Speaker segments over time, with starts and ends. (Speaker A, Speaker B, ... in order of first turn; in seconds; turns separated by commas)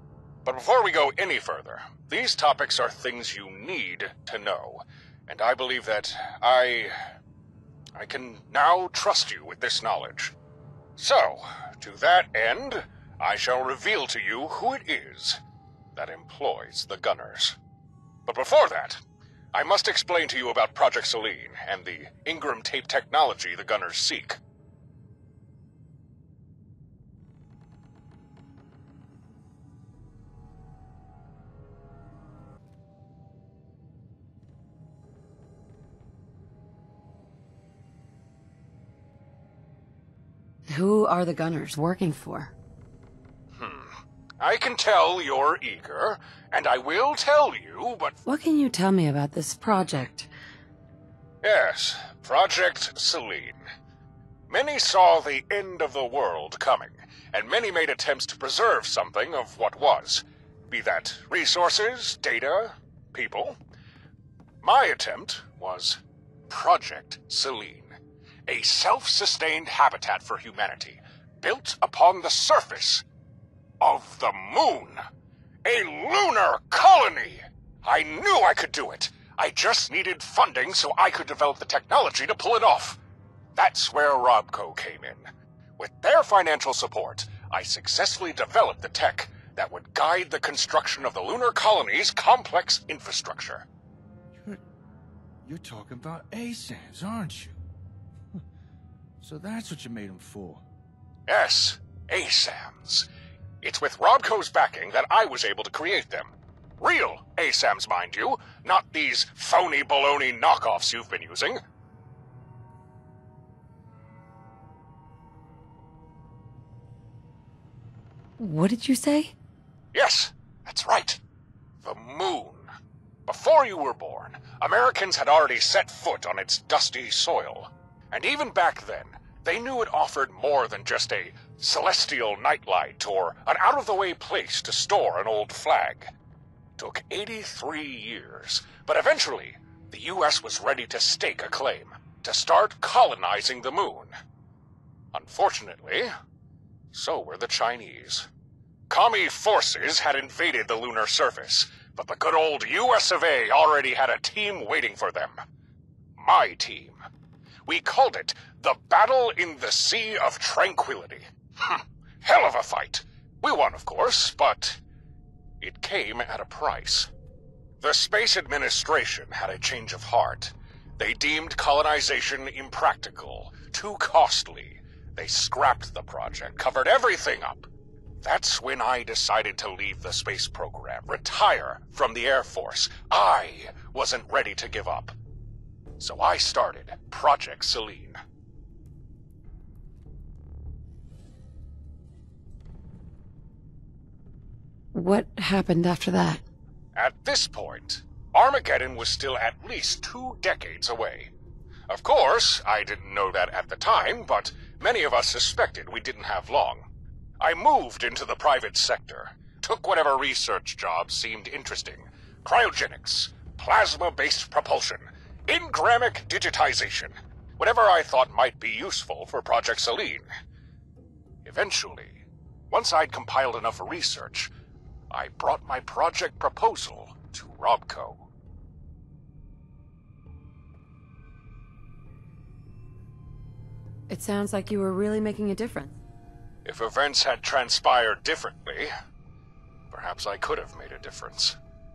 Speaker A: 0.5-7.0, Speaker A: 8.0-10.3, Speaker A: 11.0-15.4, Speaker A: 16.0-17.6, Speaker A: 18.3-19.0, Speaker A: 19.5-24.4, Speaker B: 40.7-42.5, Speaker A: 43.6-48.2, Speaker B: 48.3-50.3, Speaker A: 51.4-53.6, Speaker A: 54.5-63.6, Speaker A: 64.6-68.0, Speaker A: 68.5-73.0, Speaker A: 73.8-75.0, Speaker A: 75.6-83.0, Speaker A: 83.6-85.3, Speaker A: 85.8-93.7, Speaker C: 94.3-94.6, Speaker C: 95.4-97.6, Speaker C: 99.2-100.6, Speaker A: 101.3-103.1, Speaker A: 103.6-111.6, Speaker B: 118.4-119.3, Speaker A: 119.9-121.2, Speaker A: 121.8-122.7, Speaker A: 123.3-136.1, Speaker A: 136.8-144.1, Speaker A: 145.1-146.1, Speaker A: 146.9-148.3, Speaker A: 148.9-155.4, Speaker A: 156.2-157.0, Speaker A: 157.7-164.8, Speaker A: 165.6-167.1, Speaker A: 167.8-177.7, Speaker A: 178.2-185.2, Speaker A: 186.0-188.2, Speaker B: 194.9-196.4, Speaker A: 197.0-201.3, Speaker A: 201.9-206.8, Speaker A: 207.4-220.3, Speaker A: 221.4-224.5, Speaker A: 225.1-228.3, Speaker B: 234.1-235.9, Speaker A: 236.7-238.9, Speaker A: 239.9-241.6